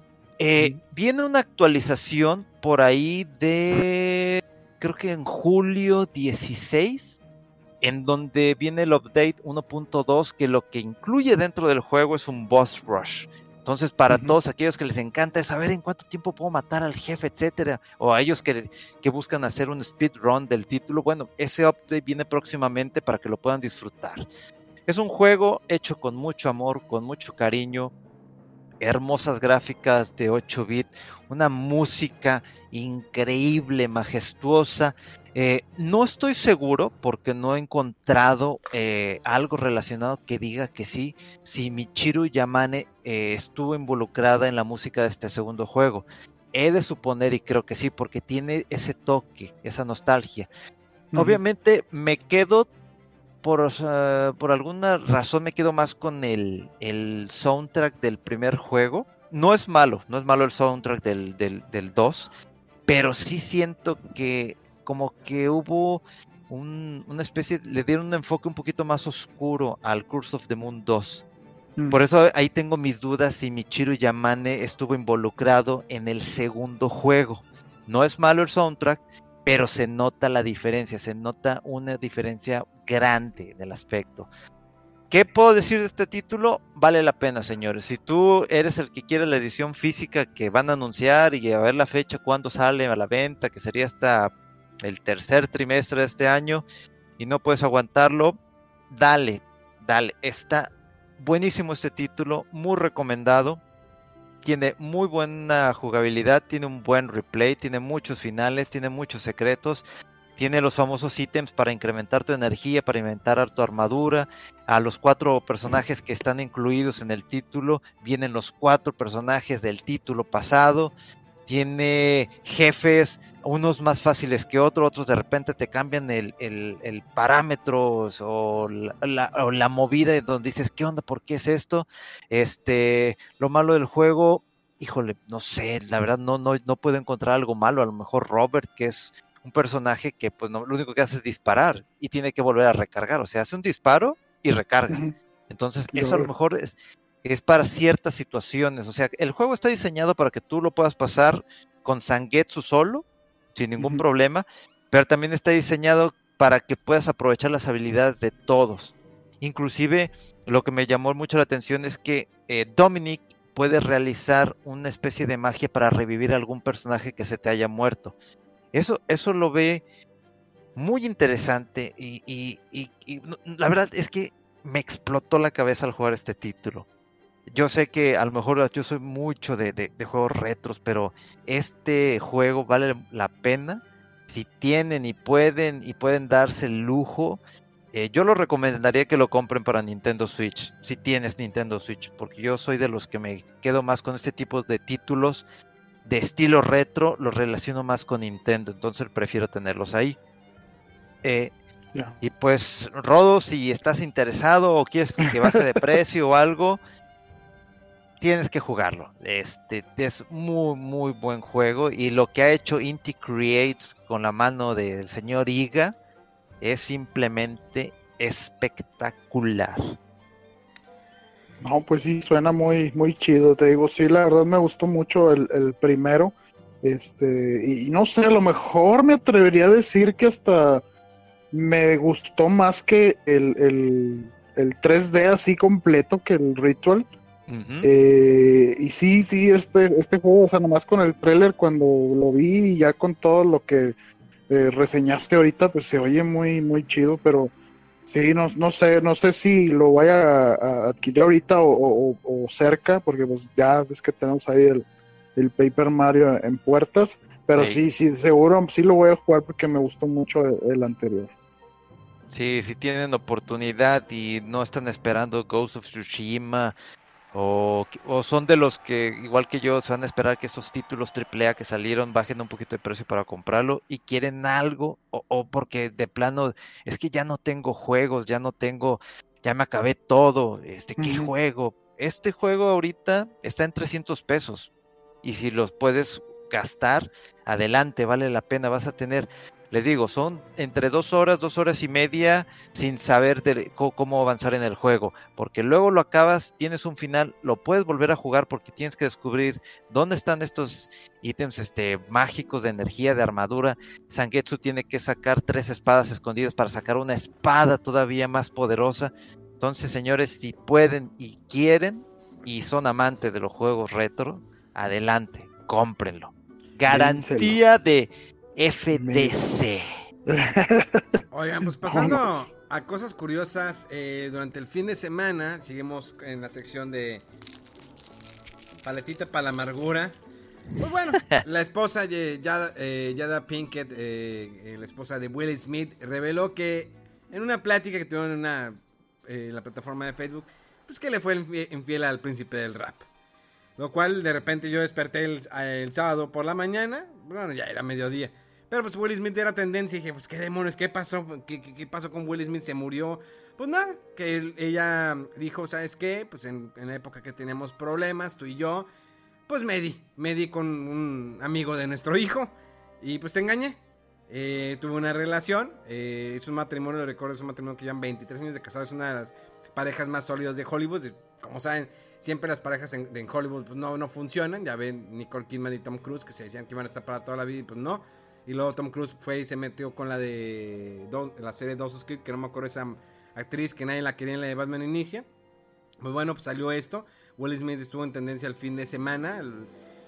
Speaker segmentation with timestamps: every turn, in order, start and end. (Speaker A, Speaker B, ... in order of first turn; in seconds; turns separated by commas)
Speaker A: 0.4-7.2, Speaker A: 7.8-24.3, Speaker B: 14.1-14.4, Speaker A: 24.9-27.9, Speaker A: 28.8-50.5, Speaker B: 51.1-51.4, Speaker A: 51.1-52.7, Speaker A: 53.4-62.3, Speaker A: 62.9-71.2, Speaker A: 71.9-84.3, Speaker A: 85.1-94.3, Speaker A: 94.8-96.7, Speaker A: 97.2-98.4, Speaker A: 98.9-103.6, Speaker A: 104.4-109.8, Speaker A: 110.4-120.9, Speaker A: 121.5-145.0, Speaker B: 144.9-145.2, Speaker A: 145.5-168.1, Speaker B: 145.9-146.3, Speaker A: 168.7-169.8, Speaker A: 170.8-176.9, Speaker A: 177.5-187.4, Speaker A: 187.9-195.4, Speaker A: 196.1-200.2, Speaker A: 201.2-201.5, Speaker A: 202.2-206.8, Speaker A: 208.2-215.9, Speaker A: 216.6-220.0, Speaker B: 221.6-230.8, Speaker B: 231.5-237.1, Speaker A: 237.5-237.9, Speaker B: 237.8-243.9, Speaker B: 244.5-247.5, Speaker B: 248.1-261.3, Speaker A: 257.6-257.8, Speaker A: 262.3-266.8, Speaker A: 267.3-284.7, Speaker B: 281.0-281.3, Speaker A: 285.2-319.9, Speaker B: 316.9-317.6, Speaker B: 318.9-319.3, Speaker B: 320.3-321.2, Speaker C: 321.3-327.2, Speaker B: 321.8-322.5, Speaker C: 328.8-330.2, Speaker C: 330.8-343.1, Speaker C: 343.8-358.9, Speaker C: 359.5-385.3, Speaker C: 386.0-389.7